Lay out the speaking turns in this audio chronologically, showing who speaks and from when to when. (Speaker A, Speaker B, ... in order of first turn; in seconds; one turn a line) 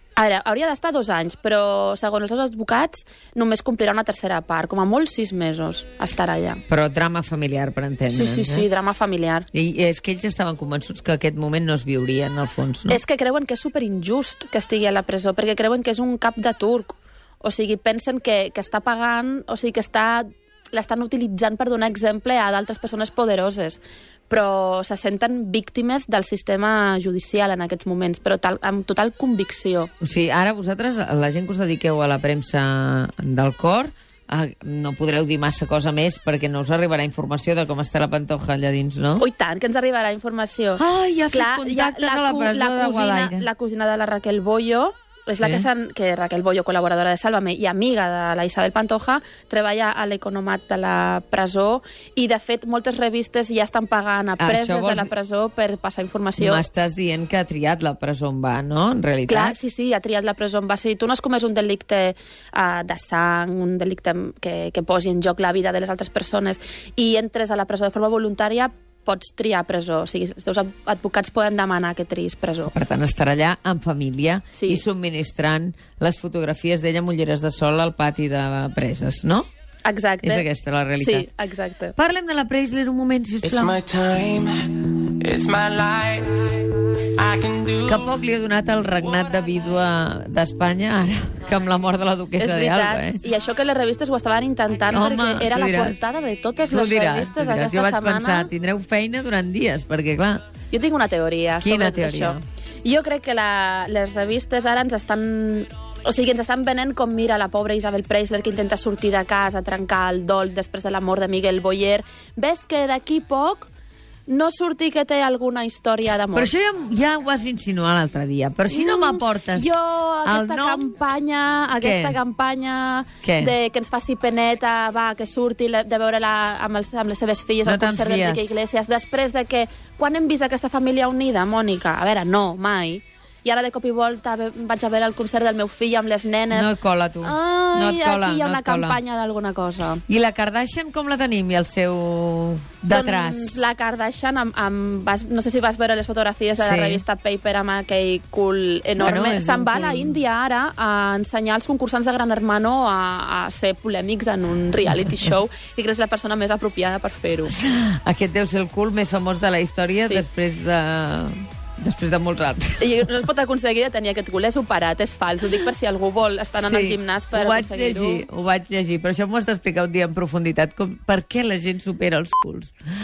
Speaker A: 0.2-6.6
Speaker B: 6.7-8.7
Speaker A: 8.1-9.5
Speaker B: 9.5-13.0
Speaker A: 12.9-29.9
Speaker B: 30.0-39.2
Speaker A: 39.2-56.6
Speaker B: 40.8-43.5
Speaker B: 45.3-45.7
Speaker B: 54.4-55.1
Speaker B: 56.4-59.6
Speaker A: 59.3-72.7
Speaker B: 72.7-79.5
Speaker A: 74.5-74.8
Speaker A: 79.8-80.5
Speaker B: 80.2-81.3
Speaker A: 81.0-82.0
Speaker B: 82.0-83.8
Speaker C: 83.5-86.6
Speaker C: 87.2-87.9
Speaker B: 87.8-93.2
Speaker A: 92.4-98.5
Speaker B: 94.9-96.0
Speaker B: 96.7-100.5
Speaker A: 100.7-113.7
Speaker B: 101.6-102.4
Speaker A: 114.3-116.5
Speaker B: 116.3-119.7
Speaker A: 118.7-136.7
Speaker B: 120.2-121.0
Speaker B: 121.8-122.2
Speaker B: 123.2-123.6
Speaker B: 127.7-128.6
Speaker B: 136.5-139.0
Speaker A: 137.2-140.0
Speaker B: 140.1-143.7
Speaker A: 142.9-157.6
Speaker B: 146.6-147.0
Speaker B: 149.0-150.2
Speaker B: 157.5-163.2
Speaker A: 162.8-168.3
Speaker B: 166.6-172.7